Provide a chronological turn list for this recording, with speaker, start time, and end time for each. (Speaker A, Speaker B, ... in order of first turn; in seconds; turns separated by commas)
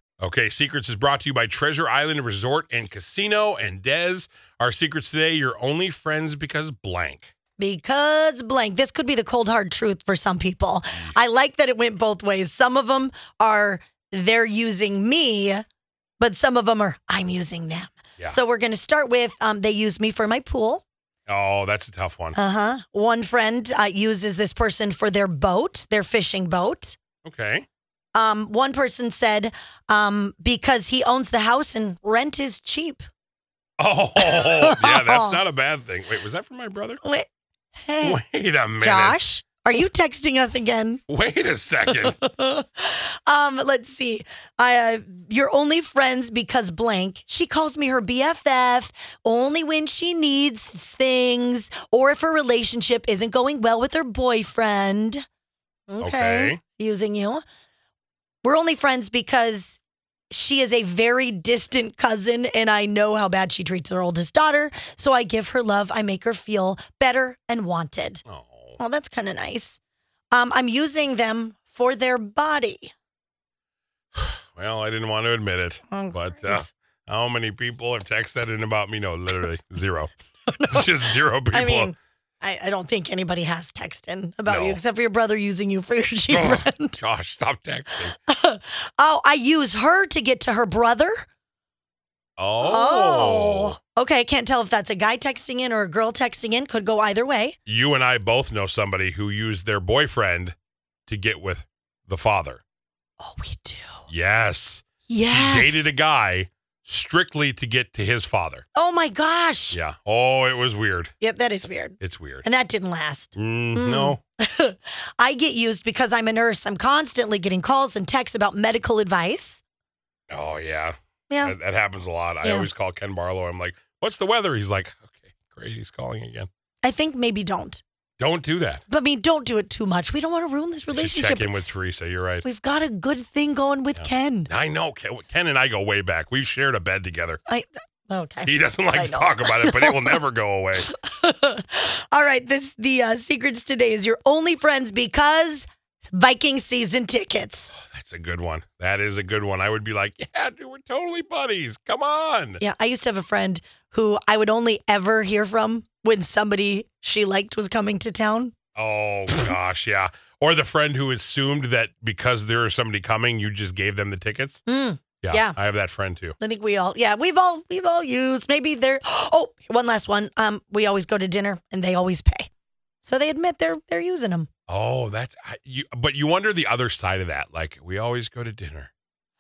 Speaker A: 0.2-7.3, Speaker B: 7.6-15.7, Speaker B: 16.2-20.9, Speaker A: 21.3-22.4, Speaker B: 22.4-27.0, Speaker A: 27.2-27.6, Speaker B: 28.1-33.0, Speaker A: 33.8-37.0, Speaker B: 34.2-35.4, Speaker B: 37.0-38.2, Speaker A: 38.0-39.2, Speaker B: 38.8-41.0, Speaker A: 41.1-42.1, Speaker B: 41.9-55.2, Speaker B: 55.9-57.4, Speaker A: 56.0-56.6, Speaker B: 58.4-68.2, Speaker A: 68.3-68.8, Speaker B: 68.8-69.8, Speaker B: 70.3-72.9, Speaker A: 74.2-80.1, Speaker B: 75.9-76.7, Speaker B: 80.5-80.9, Speaker A: 80.7-81.9, Speaker B: 81.5-87.0, Speaker A: 84.5-84.8, Speaker A: 86.3-88.1, Speaker B: 88.0-91.2, Speaker A: 92.4-93.8, Speaker B: 92.6-97.6, Speaker A: 97.7-100.6, Speaker A: 101.1-102.6, Speaker B: 103.2-104.1, Speaker A: 104.1-108.7, Speaker B: 105.1-105.9, Speaker B: 108.8-109.8, Speaker A: 109.7-111.1, Speaker B: 111.2-119.6, Speaker A: 112.0-112.5, Speaker A: 113.4-114.2, Speaker A: 120.3-126.5, Speaker B: 121.3-121.5, Speaker B: 122.4-122.7, Speaker B: 126.8-127.8, Speaker A: 128.2-128.8, Speaker B: 128.9-131.5, Speaker A: 130.9-132.4, Speaker B: 132.4-134.5, Speaker A: 134.0-137.4, Speaker B: 137.5-140.2, Speaker A: 138.4-140.9, Speaker B: 140.9-147.7, Speaker A: 147.7-152.6, Speaker B: 152.6-158.5, Speaker A: 158.8-164.6, Speaker B: 164.7-165.6, Speaker A: 165.2-166.4, Speaker B: 166.4-172.5, Speaker B: 173.0-174.5, Speaker A: 174.7-178.9